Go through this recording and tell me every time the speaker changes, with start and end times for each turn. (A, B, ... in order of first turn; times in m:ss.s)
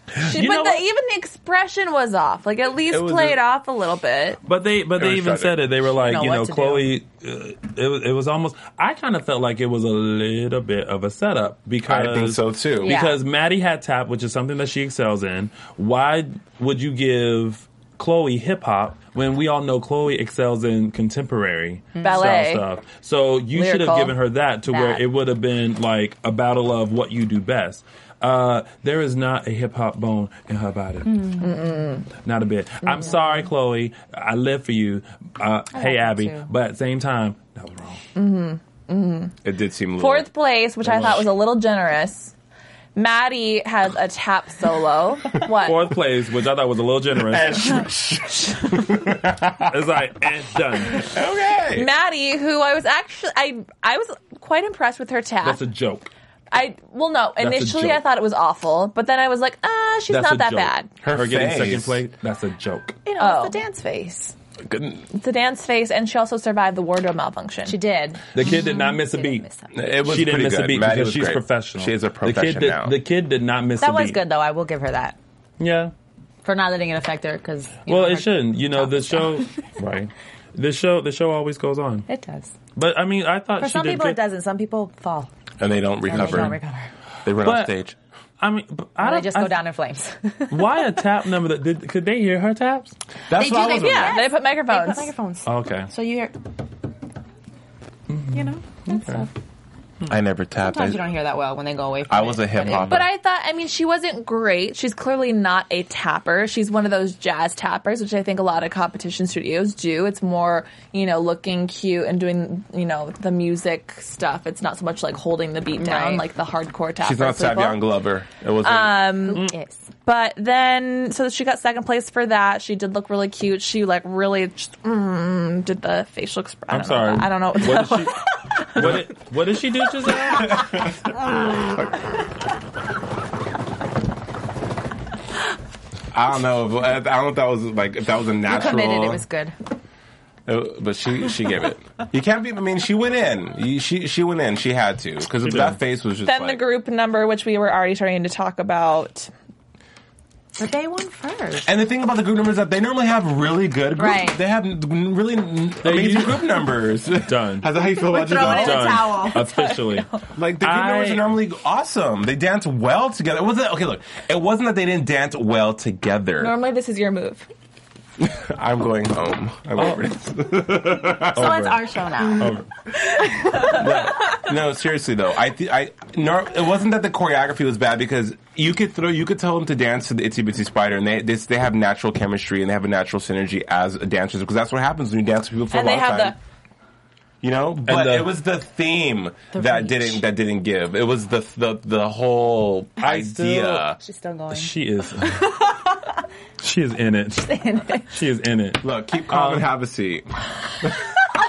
0:00.2-0:00.8 A
0:00.2-0:04.4 B
0:02.9-0:03.4 C
0:04.4-0:31.4 A
0:05.0-0:05.8 C
0:06.0-0:06.9 D
0:11.9-0:13.0 C
0:12.8-0:13.2 D
0:22.0-0:22.3 D
0:22.0-0:22.6 B
0:23.5-0:24.2 B
0:24.7-0:25.0 D
0:31.1-0:31.5 D
0:31.4-0:32.1 B
0:32.2-0:38.0 A
0:35.7-0:36.5 D
0:38.2-0:39.4 B
0:39.4-0:40.3 C
0:40.0-0:42.3 B
0:40.8-0:41.2 C
0:43.0-0:45.8 B
0:45.6-0:47.9 A
0:47.2-0:49.8 C
0:49.7-0:51.1 A
0:51.0-0:51.9 C
0:51.7-0:55.6 B
0:55.4-0:56.1 A
0:56.5-1:00.9 B
0:57.4-0:58.0 A
1:00.1-1:03.0 A
1:01.0-1:02.0 C
1:03.1-1:04.3 D
1:03.2-1:03.6 B
1:04.7-1:05.0 C
1:05.1-1:07.8 B
1:07.7-1:09.8 D
1:08.3-1:09.4 A
1:09.7-1:13.0 C
1:10.0-1:14.2 A
1:13.8-1:15.2 D
1:15.6-1:15.9 A
1:16.4-1:19.7 D
1:17.9-1:22.1 A
1:22.1-1:22.5 D
1:22.8-1:24.2 A
1:23.6-1:25.3 D
1:25.6-1:26.6 C
1:26.1-1:26.9 D
1:26.1-1:26.6 A
1:27.2-1:28.0 C
1:27.4-1:27.7 A
1:28.4-1:29.6 A
1:29.0-1:30.8 D
1:30.5-1:32.9 A
1:33.3-1:34.2 C
1:33.3-1:36.4 D
1:33.8-1:35.1 B
1:35.4-1:35.9 A
1:38.1-1:39.3 A
1:38.3-1:39.3 D
1:40.1-1:41.1 C
1:40.6-1:42.9 D
1:42.1-1:43.1 C
1:42.7-1:57.8 B
1:55.8-1:56.3 D
1:57.0-1:59.3 C
1:58.6-1:59.5 B
1:59.3-1:59.9 D
2:00.0-2:08.8 B
2:06.7-2:10.7 A
2:10.4-2:11.8 C
2:16.1-2:19.2 C
2:18.4-2:19.6 D
2:20.5-2:26.6 C
2:25.4-2:25.8 A
2:26.2-2:29.3 B
2:30.6-2:31.7 D
2:31.6-2:39.1 C
2:34.0-2:34.4 D
2:35.8-2:36.7 A
2:37.2-2:37.7 A
2:37.8-2:39.8 D
2:38.3-2:40.1 A
2:40.3-2:46.5 C
2:40.6-2:41.3 A
2:46.4-2:47.5 B
2:48.2-2:51.6 C
2:49.8-2:50.1 A
2:51.3-2:52.7 A
2:51.3-2:52.5 D
2:53.3-2:53.8 D
2:53.7-3:06.4 C
3:05.7-3:06.4 B
3:07.4-3:14.0 C
3:07.8-3:08.3 A
3:09.5-3:10.2 D
3:13.0-3:13.9 A
3:14.0-3:16.0 D
3:14.5-3:15.5 A
3:16.6-3:19.7 A
3:17.4-3:18.1 D
3:18.8-3:20.3 C